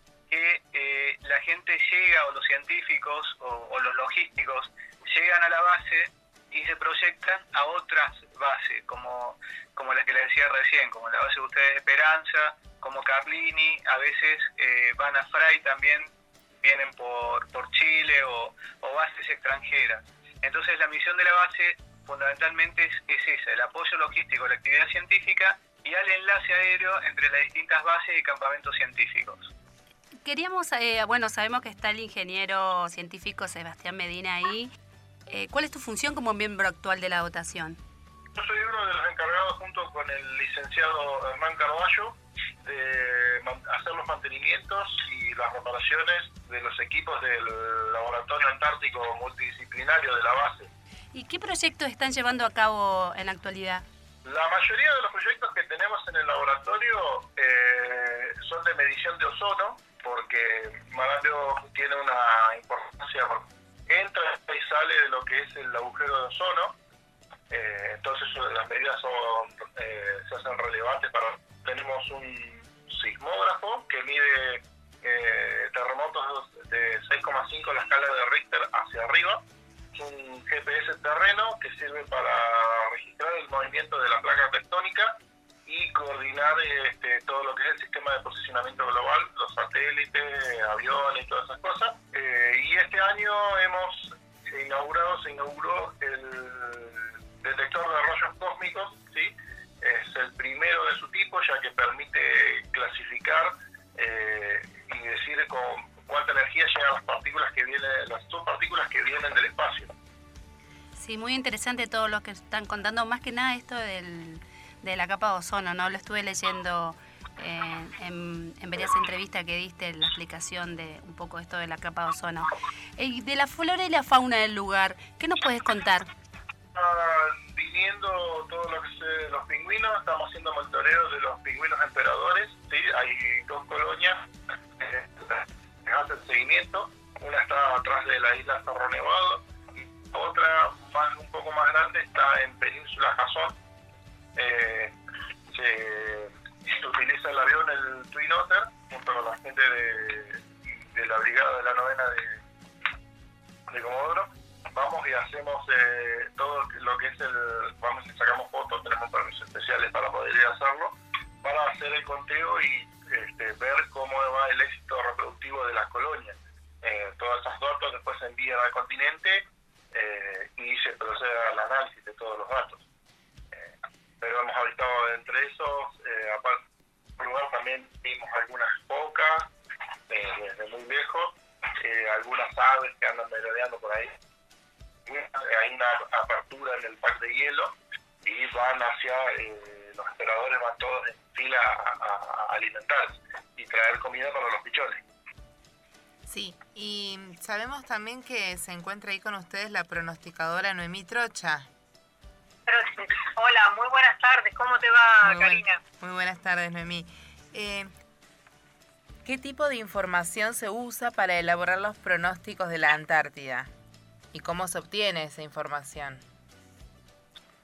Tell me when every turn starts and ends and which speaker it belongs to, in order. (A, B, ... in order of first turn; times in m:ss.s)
0:00.3-0:16.1 A
0:16.6-0:29.5 A
0:30.2-0:34.7 B
0:35.3-0:37.8 B
0:38.3-0:50.7 C
0:51.1-0:53.8 B
0:54.2-1:06.7 C
1:07.5-1:19.4 C
1:19.9-1:49.9 C
1:51.0-2:06.1 B
2:06.7-2:23.5 C
2:24.4-2:24.9 C
2:25.5-2:32.4 C
2:33.7-2:52.8 C
2:53.5-2:56.6 C
2:57.2-2:59.5 C
3:00.1-3:04.1 C
3:05.0-3:15.0 C
3:16.3-3:21.7 D
3:22.6-3:25.8 E
3:25.2-3:27.9 D
3:29.2-3:33.7 D
3:34.3-3:36.2 D